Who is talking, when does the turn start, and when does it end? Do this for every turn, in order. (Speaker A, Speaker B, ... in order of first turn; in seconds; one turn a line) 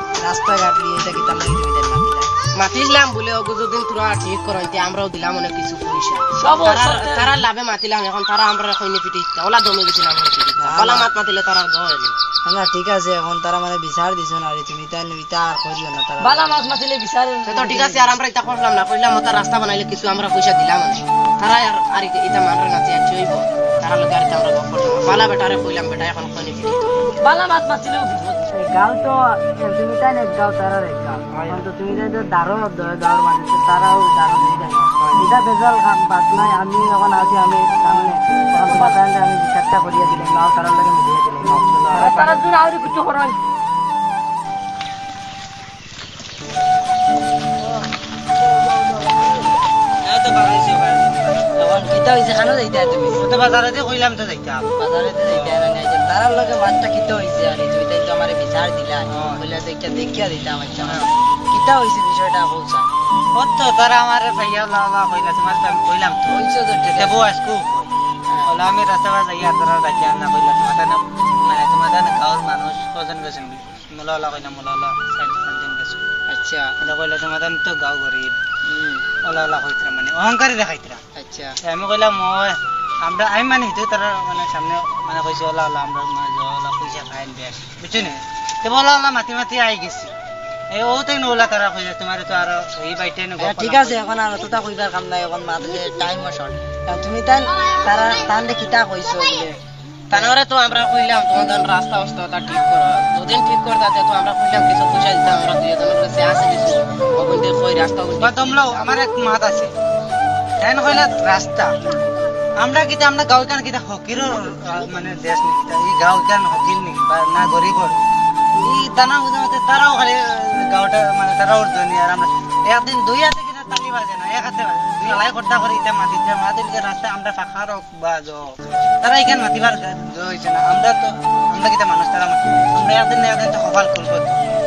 Speaker A: 0.2-2.3
Speaker B: 2.6-12.2
Speaker C: 6.3-7.4
Speaker A: 10.6-11.1
Speaker A: 12.4-16.8
Speaker C: 16.2-18.1
Speaker B: 17.4-26.9
Speaker C: 27.2-28.5
Speaker A: 28.5-42.4
Speaker B: 31.3-31.6
Speaker C: 37.9-38.1
Speaker C: 38.6-39.0
Speaker C: 41.9-43.4
Speaker C: 48.5-49.5
Speaker D: 50.0-51.5
Speaker A: 51.5-53.2
Speaker D: 53.1-54.7
Speaker A: 54.8-62.9
Speaker D: 55.3-55.7
Speaker D: 59.1-59.4
Speaker D: 60.8-61.1
Speaker D: 63.3-66.4
Speaker A: 66.3-67.2
Speaker D: 66.9-67.9
Speaker D: 68.4-76.1
Speaker A: 76.3-76.7
Speaker D: 76.8-78.4
Speaker A: 78.7-79.0
Speaker D: 79.2-81.0
Speaker A: 81.2-81.5
Speaker D: 81.6-90.1
Speaker D: 90.7-94.0
Speaker A: 93.4-99.5
Speaker B: 100.1-108.9
Speaker D: 108.2-109.7
Speaker D: 110.6-111.7
Speaker D: 112.6-118.0
Speaker D: 118.6-128.5
Speaker D: 129.0-134.4